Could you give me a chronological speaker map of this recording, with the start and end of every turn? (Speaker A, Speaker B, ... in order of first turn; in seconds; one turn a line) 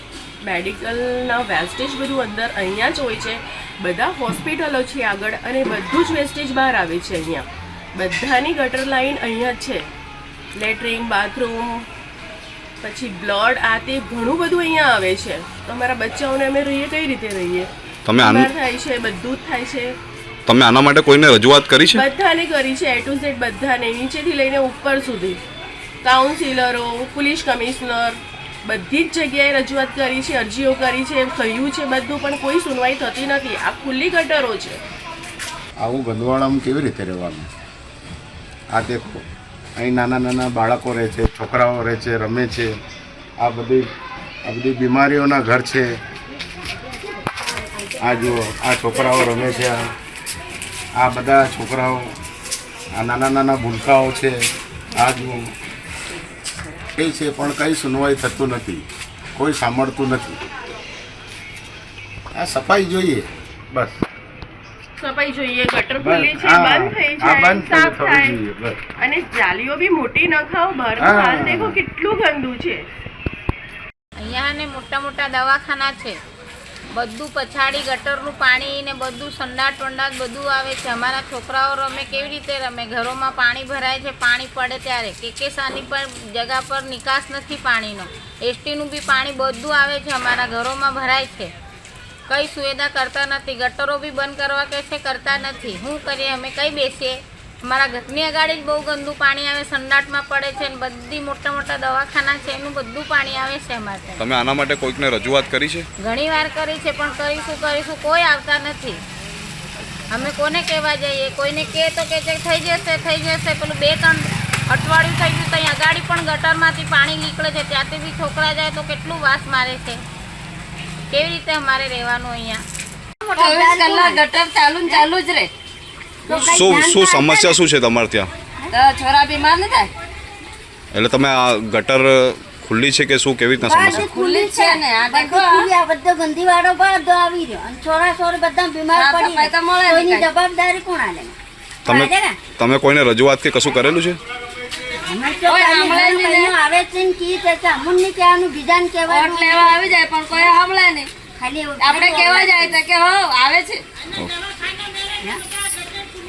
Speaker A: 0.4-9.8
Speaker A: 10.6-11.9
Speaker A: 12.8-17.7
Speaker B: 18.1-18.5
Speaker A: 18.2-19.9
Speaker B: 20.5-22.1
Speaker A: 22.0-25.4
Speaker A: 26.0-34.8
Speaker C: 35.8-37.5
Speaker C: 38.7-39.2
Speaker C: 39.8-42.8
Speaker C: 43.4-43.9
Speaker C: 44.5-46.0
Speaker C: 48.0-49.9
Speaker C: 51.0-52.2
Speaker C: 52.9-55.5
Speaker C: 57.0-60.4
Speaker C: 62.3-64.0
Speaker A: 65.0-68.3
Speaker C: 66.0-68.8
Speaker A: 69.0-72.8
Speaker C: 71.0-71.8
Speaker D: 74.2-76.2
Speaker D: 76.9-91.5
Speaker D: 92.3-104.2
Speaker B: 104.2-105.9
Speaker D: 106.0-109.0
Speaker D: 110.1-120.0
Speaker D: 121.1-122.6
Speaker E: 123.2-124.2
Speaker F: 123.4-125.5
Speaker E: 126.3-127.6
Speaker B: 126.3-128.3
Speaker F: 128.7-129.9
Speaker B: 130.9-134.0
Speaker E: 133.6-142.4
Speaker F: 133.9-135.7
Speaker F: 138.9-140.3
Speaker B: 141.9-144.2
Speaker E: 145.0-150.0
Speaker F: 145.4-146.6
Speaker F: 149.1-151.1
Speaker E: 151.3-152.8
Speaker F: 151.8-153.8